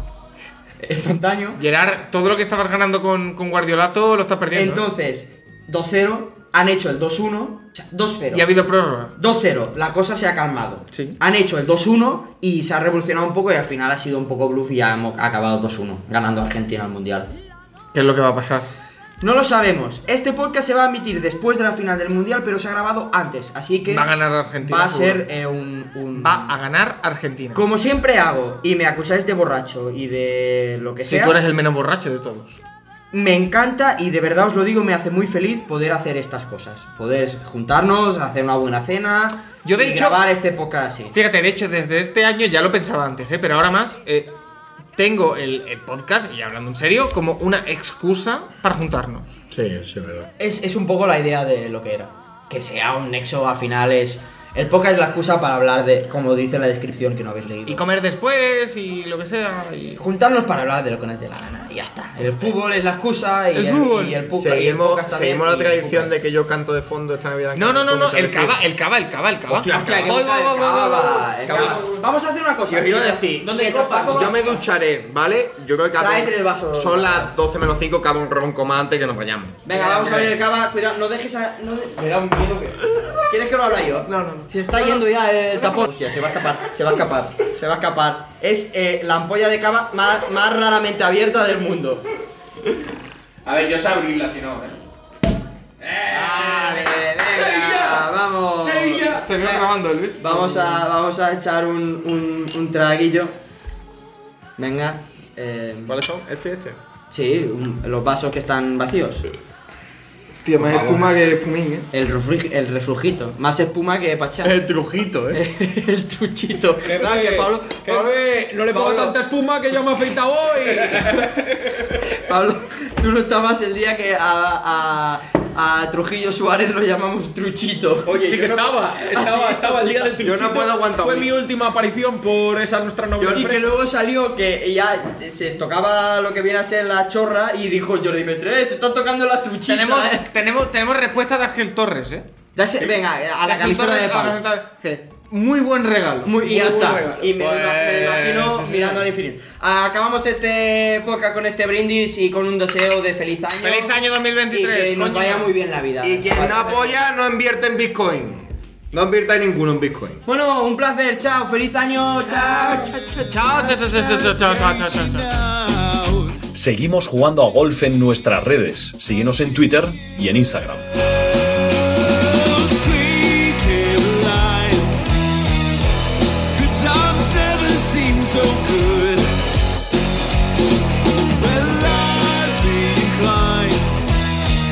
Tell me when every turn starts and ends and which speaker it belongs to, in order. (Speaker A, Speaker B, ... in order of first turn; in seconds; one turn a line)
Speaker A: 0.8-1.6
Speaker B: 1.6-4.8
Speaker A: 4.5-8.4
Speaker B: 8.3-9.1
Speaker A: 9.2-17.3
Speaker B: 10.9-11.2
Speaker B: 17.9-18.7
Speaker A: 19.2-24.1
Speaker B: 23.9-25.2
Speaker A: 24.6-26.6
Speaker B: 26.2-27.6
Speaker A: 27.5-31.4
Speaker B: 31.1-32.6
Speaker A: 33.1-41.1
Speaker B: 39.6-40.2
Speaker B: 41.1-44.3
Speaker B: 45.0-49.3
Speaker C: 49.5-50.3
Speaker A: 50.4-57.8
Speaker B: 57.7-60.0
Speaker A: 60.0-66.1
Speaker B: 63.5-64.2
Speaker C: 64.3-68.6
Speaker B: 67.5-71.9
Speaker A: 69.5-74.5
Speaker C: 71.5-71.8
Speaker C: 72.7-80.4
Speaker B: 73.6-74.2
Speaker A: 76.0-77.3
Speaker A: 79.7-82.0
Speaker C: 82.0-82.9
Speaker A: 83.3-92.1
Speaker B: 84.1-85.0
Speaker C: 93.5-94.8
Speaker B: 94.0-94.7
Speaker C: 95.8-98.1
Speaker A: 96.1-103.3
Speaker B: 98.6-100.8
Speaker C: 98.6-99.2
Speaker A: 104.6-106.0
Speaker C: 105.9-106.8
Speaker A: 107.1-109.2
Speaker B: 110.4-111.9
Speaker A: 110.6-111.0
Speaker A: 111.9-114.6
Speaker C: 114.4-115.4
Speaker A: 115.3-119.2
Speaker D: 116.8-121.4
Speaker A: 122.1-128.2
Speaker C: 128.1-128.9
Speaker D: 128.2-133.7
Speaker A: 129.1-129.9
Speaker C: 130.2-131.3
Speaker C: 133.2-133.5
Speaker A: 133.2-140.3
Speaker B: 139.7-142.3
Speaker A: 142.6-144.4
Speaker B: 142.8-149.1
Speaker A: 146.2-154.0
Speaker D: 146.5-147.1
Speaker C: 148.1-148.5
Speaker B: 153.6-155.5
Speaker A: 154.5-157.0
Speaker C: 156.0-160.2
Speaker A: 160.3-164.0
Speaker E: 162.7-166.4
Speaker B: 163.3-165.3
Speaker F: 166.5-170.9
Speaker E: 171.9-175.0
Speaker E: 176.5-179.3
Speaker E: 181.4-183.9